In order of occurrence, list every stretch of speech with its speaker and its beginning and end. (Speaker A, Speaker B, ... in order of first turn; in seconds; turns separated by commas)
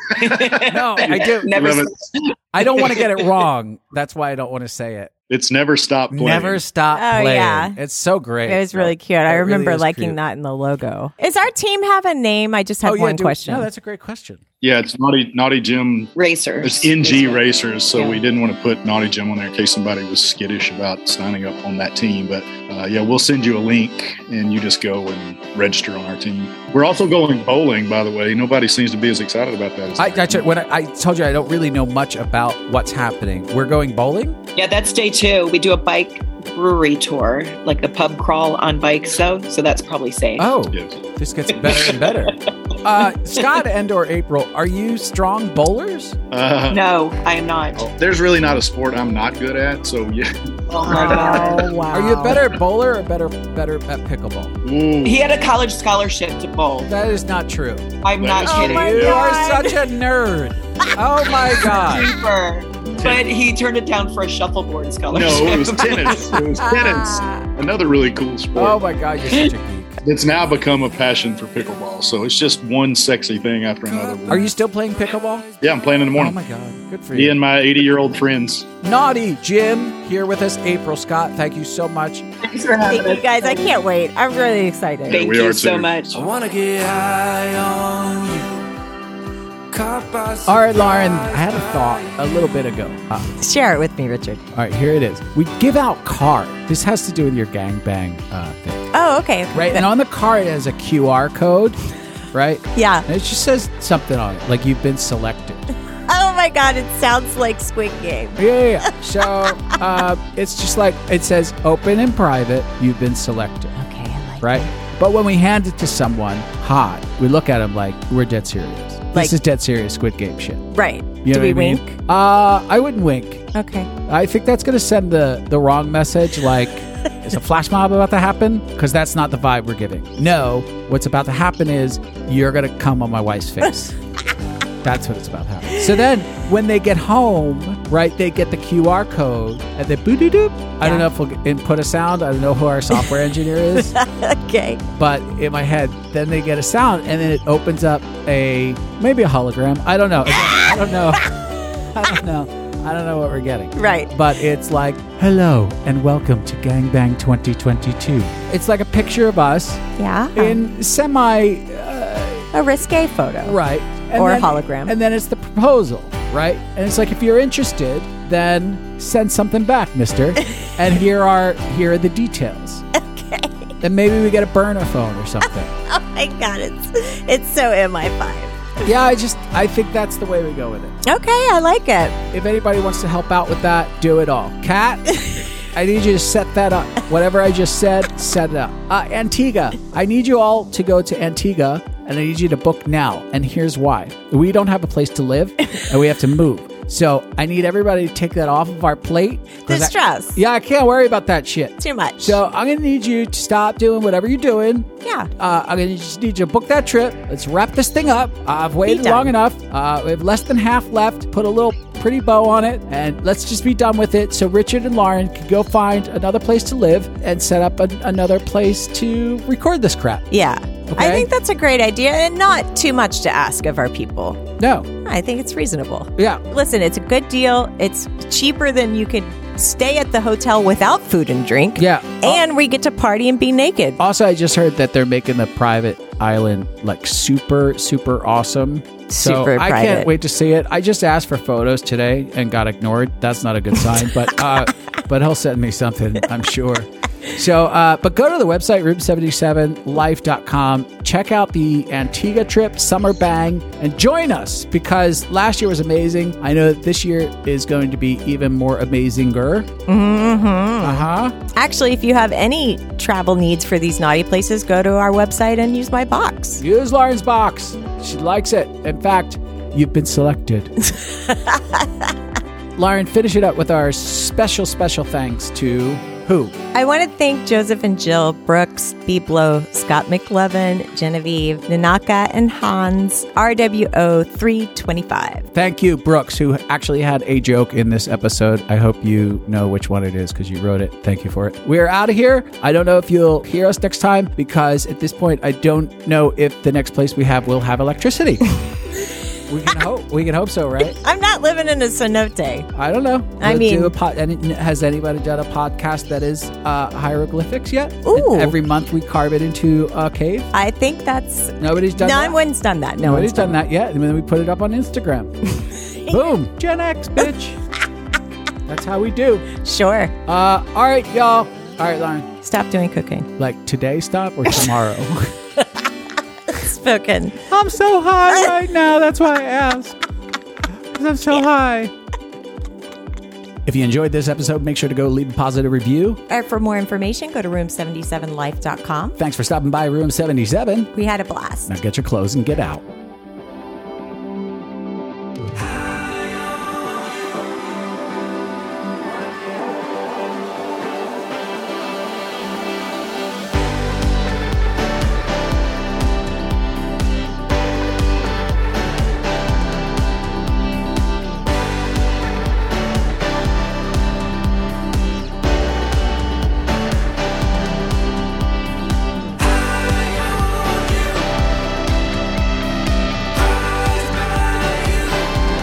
Speaker A: 0.1-3.3, Speaker B: 0.6-1.7, Speaker C: 1.5-2.0, Speaker B: 2.5-5.1, Speaker C: 5.3-6.6, Speaker B: 6.1-10.2, Speaker D: 6.9-7.8, Speaker D: 8.4-13.7, Speaker B: 12.8-14.4, Speaker C: 14.6-30.4, Speaker A: 16.1-18.2, Speaker B: 30.0-34.4, Speaker A: 34.5-40.5, Speaker B: 40.4-46.2, Speaker C: 40.7-41.0, Speaker A: 41.7-42.3, Speaker C: 46.3-46.8, Speaker A: 46.7-47.8, Speaker C: 47.8-51.7, Speaker A: 50.7-51.7, Speaker D: 50.9-52.5, Speaker B: 51.9-54.5, Speaker C: 54.6-55.3, Speaker A: 55.0-56.9, Speaker B: 56.9-57.9, Speaker A: 58.0-59.1, Speaker C: 58.2-59.1, Speaker D: 58.4-59.8, Speaker B: 58.5-62.1, Speaker A: 61.6-66.4, Speaker C: 65.1-68.8, Speaker B: 66.4-67.2, Speaker B: 68.5-70.0, Speaker C: 70.0-74.5, Speaker E: 73.9-74.4, Speaker B: 74.3-75.5, Speaker C: 75.6-76.3, Speaker B: 76.1-77.4, Speaker C: 77.1-78.7, Speaker B: 78.8-82.2, Speaker A: 82.4-83.7, Speaker D: 82.9-85.2, Speaker C: 85.1-86.0, Speaker A: 85.1-86.2, Speaker E: 86.1-88.7, Speaker E: 89.7-92.1, Speaker B: 90.5-93.3, Speaker D: 93.3-94.4, Speaker B: 94.5-98.8, Speaker D: 98.9-99.9, Speaker B: 99.5-101.8, Speaker B: 102.3-105.7, Speaker D: 102.7-103.0, Speaker D: 106.1-108.9, Speaker B: 108.3-113.7, Speaker D: 113.8-114.7, Speaker B: 114.4-120.7, Speaker D: 120.7-122.0, Speaker B: 121.2-123.5, Speaker D: 123.5-123.9, Speaker B: 124.0-133.9, Speaker B: 134.8-143.9, Speaker D: 143.9-144.8, Speaker B: 144.9-162.5, Speaker D: 153.8-154.1, Speaker D: 160.0-160.6, Speaker D: 162.5-163.6, Speaker B: 163.4-172.8, Speaker D: 164.2-164.9, Speaker D: 172.9-173.7, Speaker B: 173.8-175.7, Speaker D: 175.8-178.8, Speaker B: 178.8-181.0, Speaker D: 181.0-182.2, Speaker B: 182.3-220.3, Speaker D: 199.7-200.4, Speaker D: 201.8-202.4, Speaker D: 205.0-205.3, Speaker D: 208.8-209.3, Speaker D: 220.3-224.5, Speaker B: 220.9-221.3, Speaker B: 224.6-224.9, Speaker D: 225.0-234.0, Speaker B: 226.2-226.4, Speaker B: 231.8-232.4, Speaker B: 234.0-259.7, Speaker D: 239.1-240.1, Speaker D: 259.9-266.6, Speaker B: 260.8-261.4, Speaker B: 266.6-270.7, Speaker D: 271.3-271.9, Speaker B: 272.8-276.6, Speaker D: 276.7-285.4, Speaker B: 285.5-298.6, Speaker B: 299.5-301.0, Speaker D: 300.8-302.7, Speaker B: 302.7-310.5, Speaker D: 303.4-303.9, Speaker D: 308.0-308.6, Speaker D: 310.5-313.6, Speaker B: 311.6-312.4, Speaker B: 313.0-315.6, Speaker D: 316.0-316.3, Speaker B: 316.1-317.6, Speaker B: 318.7-319.4, Speaker D: 319.6-320.1, Speaker B: 320.2-322.3, Speaker D: 322.4-323.3, Speaker B: 323.4-325.3, Speaker D: 326.5-327.4, Speaker B: 327.5-330.0, Speaker B: 330.9-331.9, Speaker B: 333.6-336.2, Speaker D: 336.3-339.2, Speaker B: 339.2-340.9, Speaker D: 340.9-341.8, Speaker B: 341.7-342.8